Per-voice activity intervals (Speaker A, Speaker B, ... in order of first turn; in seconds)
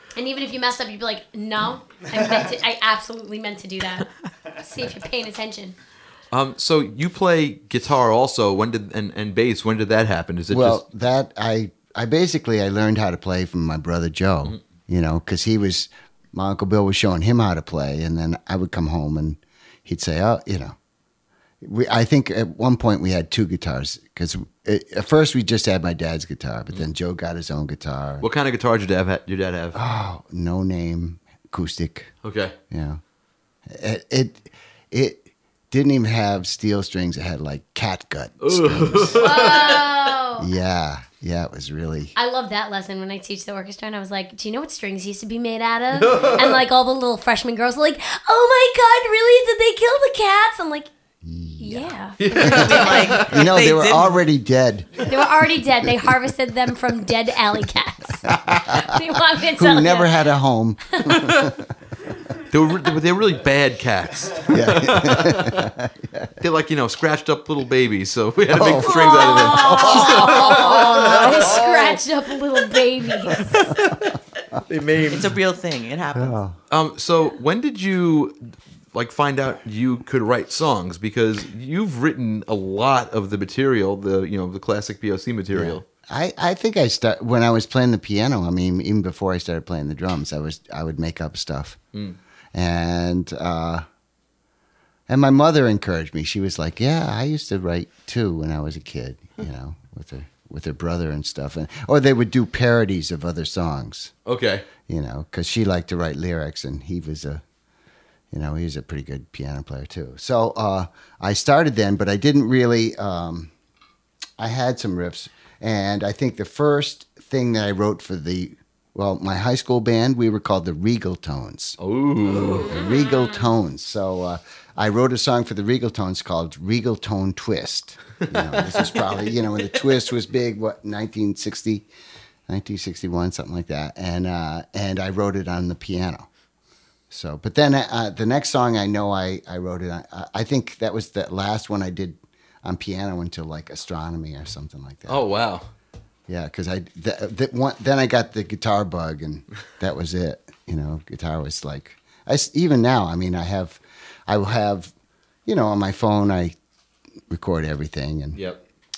Speaker A: 0.1-4.0, 4.6-5.8, 39.2-40.5, 42.1-50.9, 51.6-53.2, 55.0-60.1, 68.8-73.6
Speaker B: 6.3-10.8, 28.2-29.8, 32.2-32.5, 38.4-39.9, 45.9-46.6, 52.2-53.6, 61.2-61.5, 62.5-65.7, 66.4-72.0, 73.2-75.3, 76.7-78.3, 78.9-85.8, 91.9-92.2, 104.2-104.7, 121.8-122.7, 128.3-128.8, 145.1-145.7, 158.3-158.6
Speaker C: 10.5-20.8, 21.6-28.3, 29.7-32.1, 32.7-33.0, 33.7-39.3, 40.4-42.1, 51.2-55.3, 58.2-61.7, 64.5-66.3, 68.5-71.5, 73.6-74.6, 76.1-76.6, 85.5-91.8, 92.5-93.8, 95.1-104.1, 104.8-107.4, 108.3-113.5, 114.4-121.8, 122.7-131.8, 132.5-136.3, 137.1-145.2, 146.3-154.9, 155.4-156.6, 157.3-158.4
Speaker D: 52.4-54.2, 75.1-76.4, 122.3-122.7